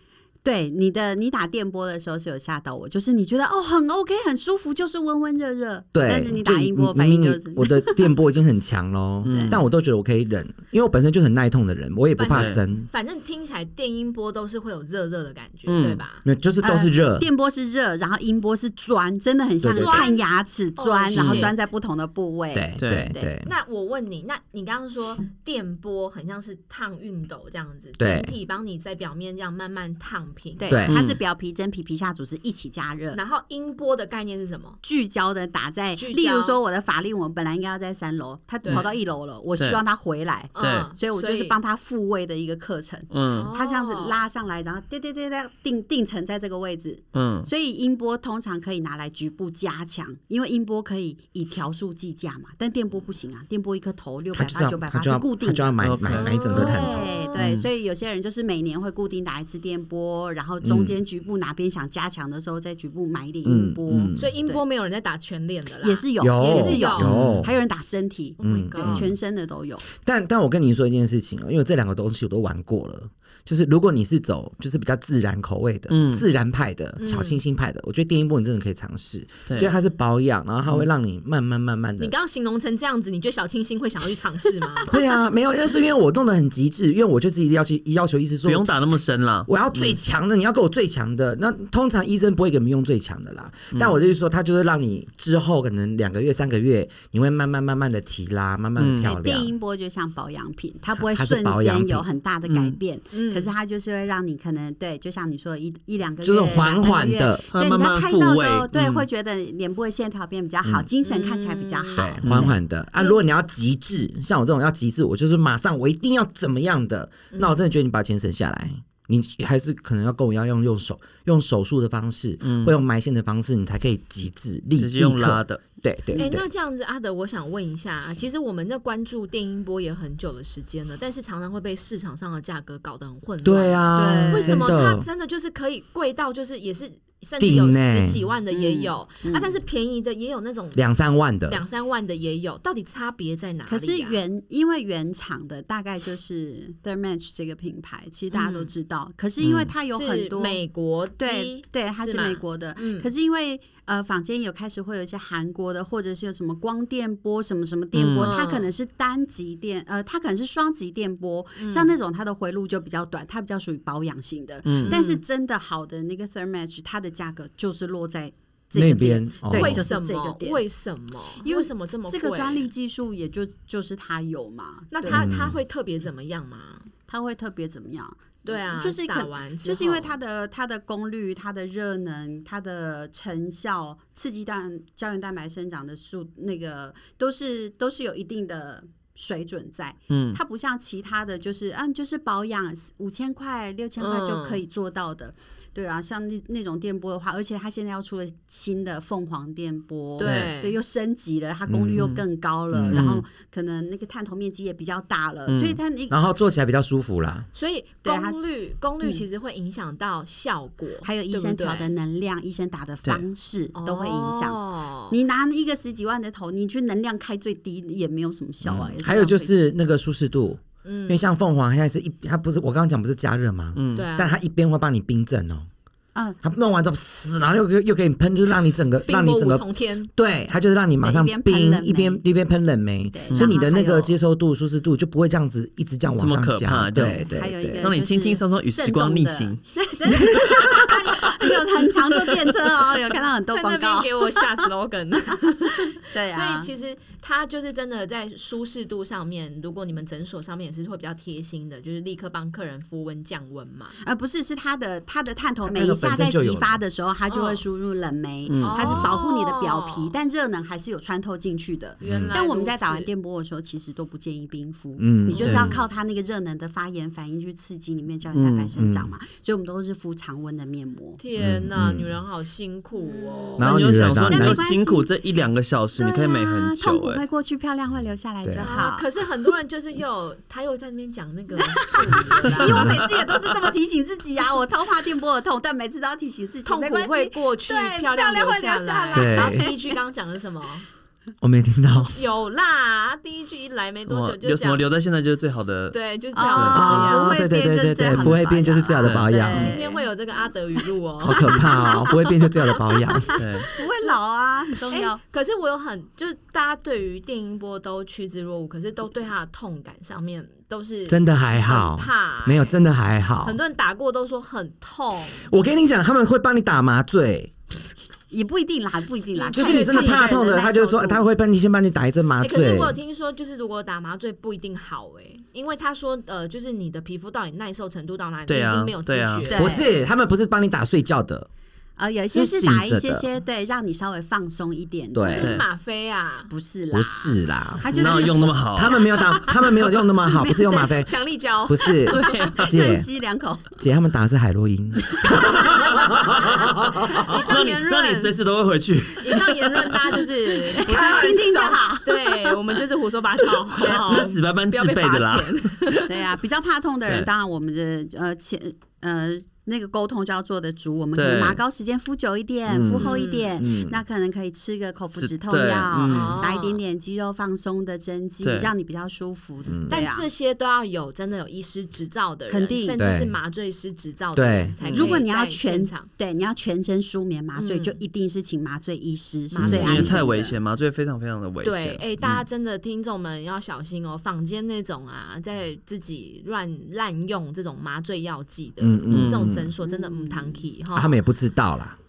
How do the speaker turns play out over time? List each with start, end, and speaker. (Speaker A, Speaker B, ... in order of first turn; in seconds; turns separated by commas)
Speaker A: 0.4-8.2, Speaker B: 5.9-12.9, Speaker C: 9.2-9.6, Speaker A: 9.3-9.6, Speaker D: 12.2-16.2, Speaker C: 12.3-12.6, Speaker C: 15.7-16.0, Speaker B: 16.2-17.3, Speaker A: 16.6-23.3, Speaker B: 19.6-20.1, Speaker D: 19.7-20.2, Speaker D: 20.8-21.7, Speaker C: 21.1-21.5, Speaker B: 22.5-23.5, Speaker C: 22.8-23.1, Speaker D: 23.4-30.8, Speaker B: 28.0-28.3, Speaker A: 30.6-33.2, Speaker B: 30.7-31.0, Speaker C: 30.9-31.2, Speaker D: 33.1-34.8, Speaker A: 34.8-64.6, Speaker D: 36.0-36.6, Speaker D: 38.6-38.9, Speaker D: 40.5-41.6, Speaker C: 40.6-40.9, Speaker C: 43.1-43.5, Speaker D: 43.3-44.2, Speaker C: 47.1-47.5, Speaker B: 54.3-57.1, Speaker C: 55.8-56.3, Speaker D: 56.2-57.4, Speaker C: 57.4-57.7, Speaker B: 60.6-61.0, Speaker B: 63.5-64.3, Speaker D: 64.2-67.1, Speaker A: 65.8-69.8, Speaker B: 66.2-67.6, Speaker C: 67.0-67.5, Speaker D: 68.4-69.1, Speaker B: 68.4-69.2, Speaker B: 69.9-82.1, Speaker C: 75.9-76.2, Speaker D: 77.0-77.4, Speaker C: 79.5-79.7, Speaker D: 82.0-84.9, Speaker B: 84.9-88.7, Speaker C: 88.5-90.0, Speaker B: 89.5-99.5, Speaker C: 98.8-99.1, Speaker A: 99.0-112.6, Speaker B: 101.0-102.1, Speaker C: 102.5-102.8, Speaker D: 103.1-103.5, Speaker B: 106.2-107.4, Speaker C: 107.5-109.1, Speaker B: 110.6-110.9, Speaker D: 111.0-112.2, Speaker B: 112.0-126.5, Speaker C: 112.2-112.5, Speaker D: 117.3-117.6, Speaker C: 122.4-122.7, Speaker C: 124.8-125.6, Speaker D: 126.2-140.8, Speaker B: 133.4-135.1, Speaker A: 133.9-134.7, Speaker B: 137.4-138.2, Speaker A: 138.5-139.6, Speaker B: 140.7-141.6, Speaker D: 141.5-144.2, Speaker A: 143.7-150.6, Speaker D: 148.3-148.7, Speaker C: 149.4-149.7, Speaker D: 149.9-153.1, Speaker A: 151.2-170.6, Speaker C: 157.9-158.3, Speaker D: 158.2-158.7, Speaker D: 161.6-161.9, Speaker C: 164.7-165.0, Speaker D: 164.9-165.2, Speaker B: 168.8-169.9, Speaker D: 169.5-172.7, Speaker A: 171.4-175.3, Speaker D: 174.9-176.9, Speaker B: 175.1-175.6, Speaker A: 177.1-206.2, Speaker D: 178.4-180.2, Speaker C: 190.1-190.4, Speaker D: 194.0-194.6, Speaker D: 200.2-200.8, Speaker C: 200.2-200.5, Speaker C: 201.7-202.2, Speaker B: 201.8-202.0, Speaker B: 202.7-203.0, Speaker C: 202.9-203.2, Speaker C: 205.5-205.8, Speaker B: 206.1-207.5, Speaker D: 207.5-211.9, Speaker A: 208.0-208.5, Speaker A: 211.0-219.7, Speaker D: 213.8-215.2, Speaker B: 218.7-225.7, Speaker D: 220.8-221.2, Speaker C: 223.8-224.1, Speaker D: 223.9-224.4, Speaker B: 226.4-237.9, Speaker D: 229.1-230.1, Speaker A: 231.0-232.2, Speaker A: 233.1-234.2, Speaker C: 236.2-237.2, Speaker A: 237.0-244.7, Speaker C: 237.8-242.6, Speaker B: 240.3-240.7, Speaker D: 243.5-254.0, Speaker A: 246.0-246.7, Speaker A: 254.0-271.2, Speaker B: 255.7-256.8, Speaker D: 257.3-257.6, Speaker C: 258.5-259.1, Speaker D: 258.6-260.1, Speaker B: 262.0-262.3, Speaker C: 262.0-262.3, Speaker D: 262.2-263.1, Speaker B: 265.0-265.8, Speaker C: 265.3-265.8, Speaker C: 268.3-268.7, Speaker B: 268.8-269.1, Speaker D: 271.2-273.7, Speaker B: 271.4-272.1, Speaker A: 273.0-273.7, Speaker B: 273.6-274.7, Speaker C: 273.6-277.2, Speaker A: 274.2-275.1, Speaker A: 276.0-279.1, Speaker B: 278.4-278.7, Speaker D: 278.6-282.9, Speaker A: 281.6-289.9, Speaker C: 282.4-283.0, Speaker B: 282.6-283.0, Speaker D: 286.6-290.9, Speaker B: 289.1-289.7, Speaker B: 291.4-292.2, Speaker D: 292.1-294.9, Speaker C: 294.1-296.0, Speaker D: 295.9-297.4, Speaker A: 296.3-300.1, Speaker C: 296.5-297.0, Speaker B: 296.8-299.8, Speaker C: 299.0-299.3, Speaker D: 299.5-302.8, Speaker B: 301.2-303.4, Speaker A: 301.4-302.0, Speaker A: 303.3-305.2, Speaker C: 303.4-303.7, Speaker D: 303.9-304.2, Speaker D: 304.9-312.8, Speaker B: 311.1-313.6, Speaker D: 313.4-315.5, Speaker B: 315.4-317.5, Speaker A: 318.3-321.2, Speaker D: 319.4-320.3, Speaker B: 319.5-323.0, Speaker D: 322.4-329.8, Speaker C: 328.5-329.5, Speaker A: 329.5-329.9, Speaker B: 329.5-331.5, Speaker A: 332.0-335.6, Speaker B: 332.3-333.2, Speaker B: 335.1-335.6, Speaker D: 335.2-336.5, Speaker A: 336.5-338.6, Speaker B: 336.9-338.2, Speaker C: 337.9-339.1, Speaker B: 338.7-341.1, Speaker A: 340.3-340.9, Speaker D: 340.8-342.6, Speaker B: 341.7-343.1, Speaker C: 342.1-342.7, Speaker A: 342.6-343.8, Speaker B: 343.8-347.4, Speaker D: 345.3-348.4, Speaker C: 347.1-350.1, Speaker D: 349.1-356.2, Speaker A: 350.7-352.6, Speaker B: 350.9-351.3, Speaker A: 353.8-354.3, Speaker C: 353.8-355.8, Speaker A: 356.1-370.3, Speaker C: 361.1-361.6, Speaker B: 362.7-364.0, Speaker D: 362.9-363.5, Speaker C: 365.2-366.4, Speaker D: 366.1-366.8, Speaker C: 368.4-368.7, Speaker B: 369.7-370.0, Speaker D: 369.9-376.1, Speaker A: 372.5-373.0, Speaker B: 373.0-373.4, Speaker B: 374.4-374.8, Speaker C: 374.8-375.2, Speaker A: 374.9-380.6, Speaker D: 377.6-378.0, Speaker D: 379.5-380.3, Speaker B: 379.6-380.2, Speaker C: 379.7-382.0, Speaker D: 381.6-391.2, Speaker B: 388.8-389.7, Speaker C: 389.1-389.5, Speaker A: 389.9-390.7, Speaker B: 390.9-392.0